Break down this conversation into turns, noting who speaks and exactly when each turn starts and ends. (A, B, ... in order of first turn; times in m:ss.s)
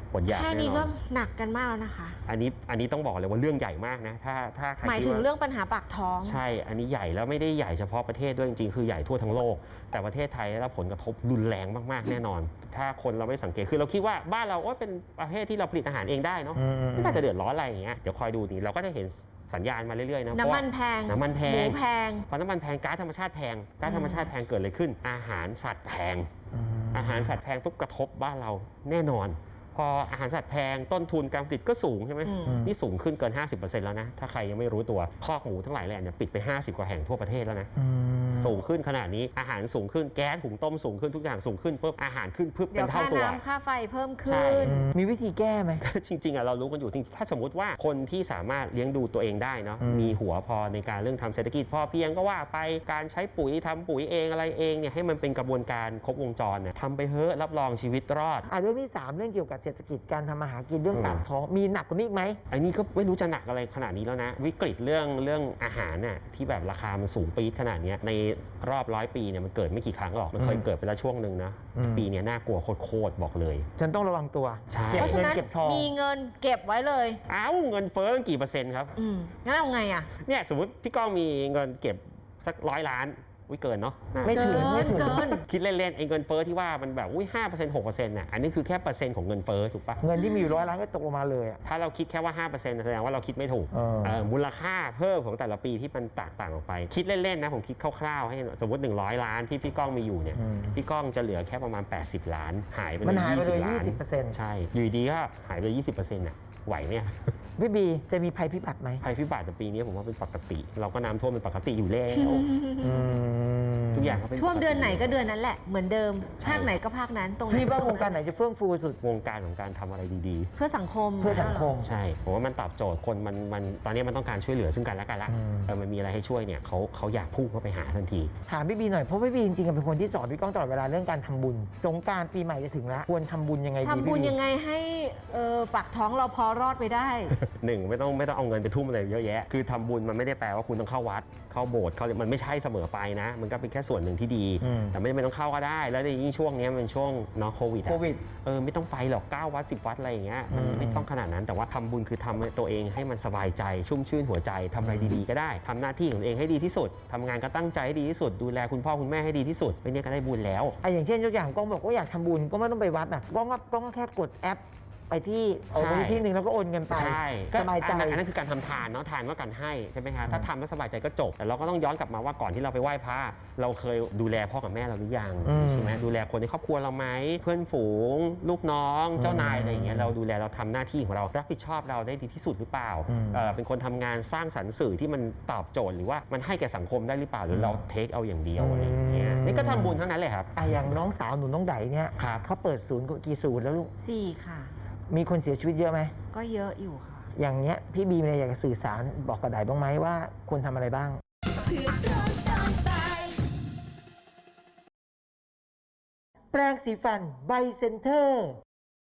0:00.1-0:00.9 A
0:00.3-0:02.2 B
0:02.3-0:05.2 A
0:04.8-0:06.4 B
0:06.2-0:26.3 A
0:16.6-0:17.2 C
0:20.3-0:22.3 B
0:23.8-0:24.3 B
0:26.5-0:27.4 C
0:26.9-0:37.7 A
0:32.2-0:32.6 B
0:32.5-0:32.7 C
0:37.8-0:38.6 C
0:38.4-0:43.4 A
0:42.7-0:44.8 B
0:44.2-0:44.8 A
0:44.6-0:45.8 C
0:45.8-0:58.5 A
0:49.8-0:50.2 C
0:58.5-1:02.4 C
1:00.9-1:01.2 A
1:02.5-1:13.7 A
1:10.4-1:10.6 C
1:11.8-1:12.1 C
1:13.8-1:15.9 C
1:14.7-1:15.3 A
1:14.9-1:17.2 B
1:17.3-1:19.0 A
1:19.0-1:20.1 B
1:20.2-1:30.0 A
1:24.2-1:25.3 C
1:24.3-1:25.4 B
1:30.0-1:31.6 C
1:30.2-1:30.6 B
1:31.6-1:47.3 A
1:33.7-1:34.2 C
1:40.4-1:40.8 C
1:43.0-1:44.4 C
1:47.6-1:49.0 C
1:49.0-1:52.5 A
1:52.2-1:53.1 B
1:52.8-1:54.2 C
1:53.9-1:55.2 A
1:54.4-1:58.1 B
1:56.4-1:56.7 A
1:57.5-1:59.0 C
1:59.0-2:00.5 A
2:00.6-2:01.7 B
2:01.2-2:01.9 C
2:01.2-2:08.3 A
2:05.3-2:05.7 C
2:08.5-2:14.4 C
2:13.8-2:17.4 B
2:17.4-2:40.8 A
2:24.6-2:25.0 C
2:27.9-2:28.3 C
2:30.5-2:31.1 C
2:34.8-2:35.2 C
2:40.8-2:48.2 C
2:45.7-2:46.2 A
2:46.9-3:10.6 A
2:55.4-2:56.0 C
2:59.2-3:00.1 C
3:03.1-3:03.4 C
3:07.5-3:07.8 C
3:08.6-3:10.0 C
3:10.6-3:13.9 C
3:12.2-3:12.4 A
3:14.0-3:14.7 B
3:15.1-3:16.2 C
3:16.3-3:17.3 B
3:17.4-3:21.2 C
3:21.7-3:23.2 B
3:26.5-3:28.6 C